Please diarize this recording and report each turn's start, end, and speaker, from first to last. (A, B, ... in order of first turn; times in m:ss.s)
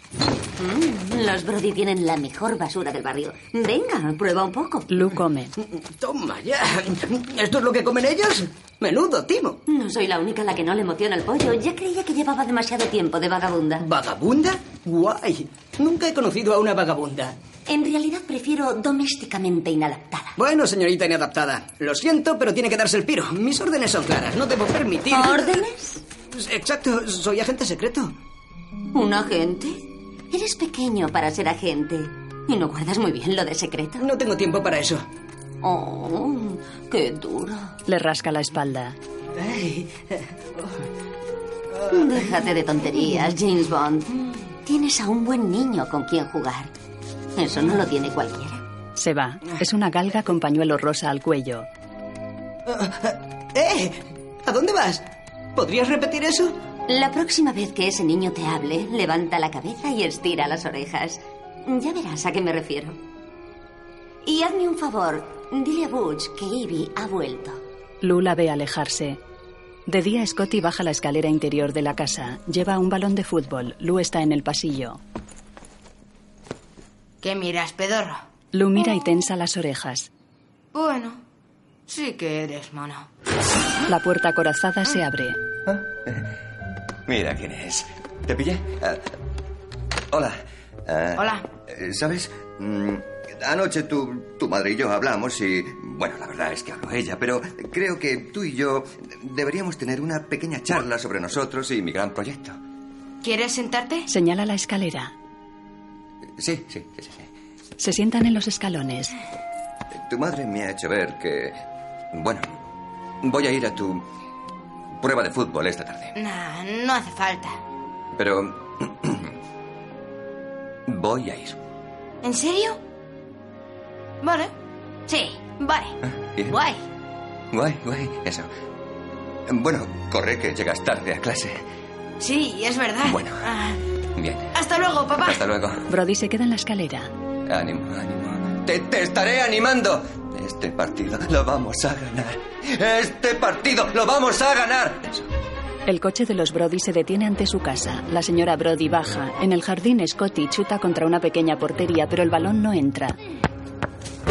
0:00.6-0:04.9 A
0:04.9-0:05.5 B
0:05.6-0:09.6 C
0:09.7-0:13.8 A
0:13.8-0:17.4 C
0:17.7-0:20.3 A
0:20.4-0:25.6 C
0:25.1-0:26.0 A
0:26.3-0:28.1 C
0:28.9-0:34.0 A
0:34.0-0:35.0 C
0:35.6-0:37.7 A
0:37.9-0:39.0 B
0:39.4-0:40.7 C
0:41.8-0:42.3 C
0:41.9-0:44.1 A
0:44.6-0:46.7 A
0:47.4-0:48.6 A
0:49.0-0:51.7 B
0:52.7-0:55.0 C
0:55.6-0:56.6 C
0:56.9-1:03.0 A
1:04.2-1:07.6 A
1:08.0-1:09.2 B
1:09.9-1:15.0 B
1:17.2-1:18.2 D
1:18.5-1:20.1 B
1:20.7-1:21.2 D
1:21.9-1:23.1 D
1:23.9-1:25.4 B
1:25.7-1:26.2 E
1:27.1-1:29.0 E
1:30.9-1:42.6 E
1:31.2-1:31.5 D
1:43.2-1:44.1 D
1:44.1-1:45.1 B
1:46.4-1:47.3 E
1:47.8-1:49.1 B
1:50.1-1:51.6 E
1:52.1-1:52.5 E
1:53.2-1:54.0 E
1:55.0-1:56.1 E
1:56.1-1:57.6 D
1:58.2-1:59.3 E
2:00.9-2:01.6 E
2:02.2-2:02.8 D
2:04.2-2:04.5 D
2:05.1-2:05.9 D
2:06.1-2:06.6 E
2:06.5-2:06.8 D
2:07.5-2:08.5 E
2:09.5-2:11.6 E
2:12.2-2:13.8 D
2:13.0-2:13.4 E
2:14.2-2:14.5 E
2:14.5-2:15.4 D
2:15.2-2:15.8 E
2:15.9-2:17.1 B
2:17.5-2:25.2 E
2:25.8-2:33.2 B